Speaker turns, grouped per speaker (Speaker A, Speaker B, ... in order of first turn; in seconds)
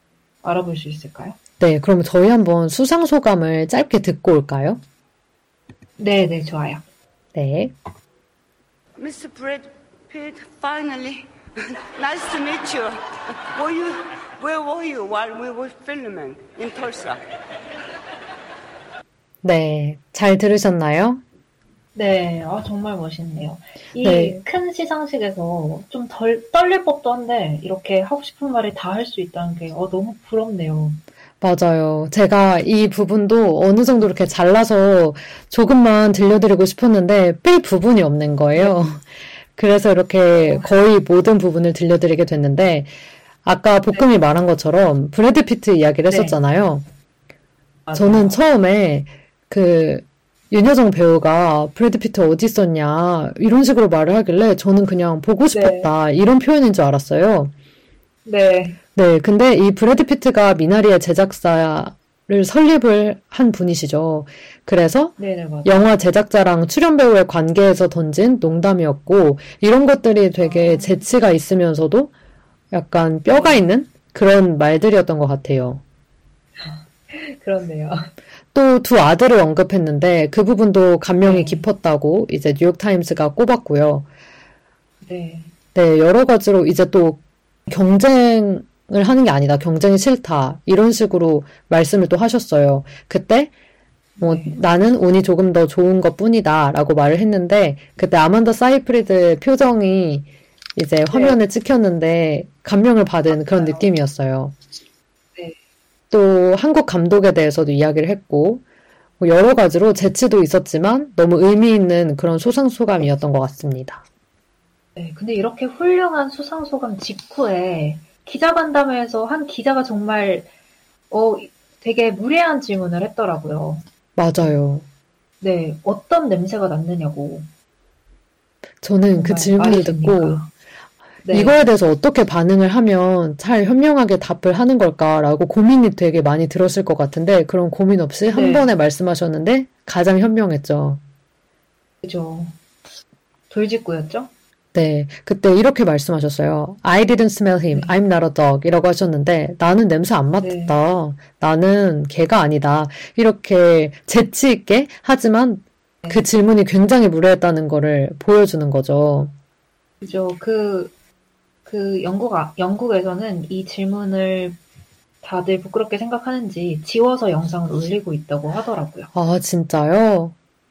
Speaker A: 0.4-1.4, 6.0-6.8, 21.9-31.0, 38.5-38.9, 40.4-40.7, 46.1-46.4, 47.9-48.4, 55.5-55.9, 58.2-58.8, 65.2-65.9, 70.4-71.1, 73.3-73.7, 76.6-78.1, 81.2-81.7, 85.0-85.5, 94.2-94.6, 101.1-101.4, 103.3-103.9, 115.0-120.5, 121.1-123.8, 125.4-127.5, 129.1-130.5, 131.2-131.6, 138.3-138.7, 142.0-142.6, 143.5-144.3, 147.7-147.9, 150.4-150.8, 160.0-160.9, 161.7-164.6, 165.2-169.1
Speaker B: 1.6-4.8, 7.3-7.7, 19.4-21.2, 24.0-24.4, 31.4-42.9, 43.4-46.9, 47.9-57.5, 58.9-72.1, 72.7-75.8, 78.5-84.0, 85.8-93.5, 94.2-104.5, 106.1-108.6, 109.2-114.0, 124.2-124.9, 128.8-130.4, 131.3-141.0, 144.7-159.3, 169.1-170.3
Speaker C: 8.9-17.2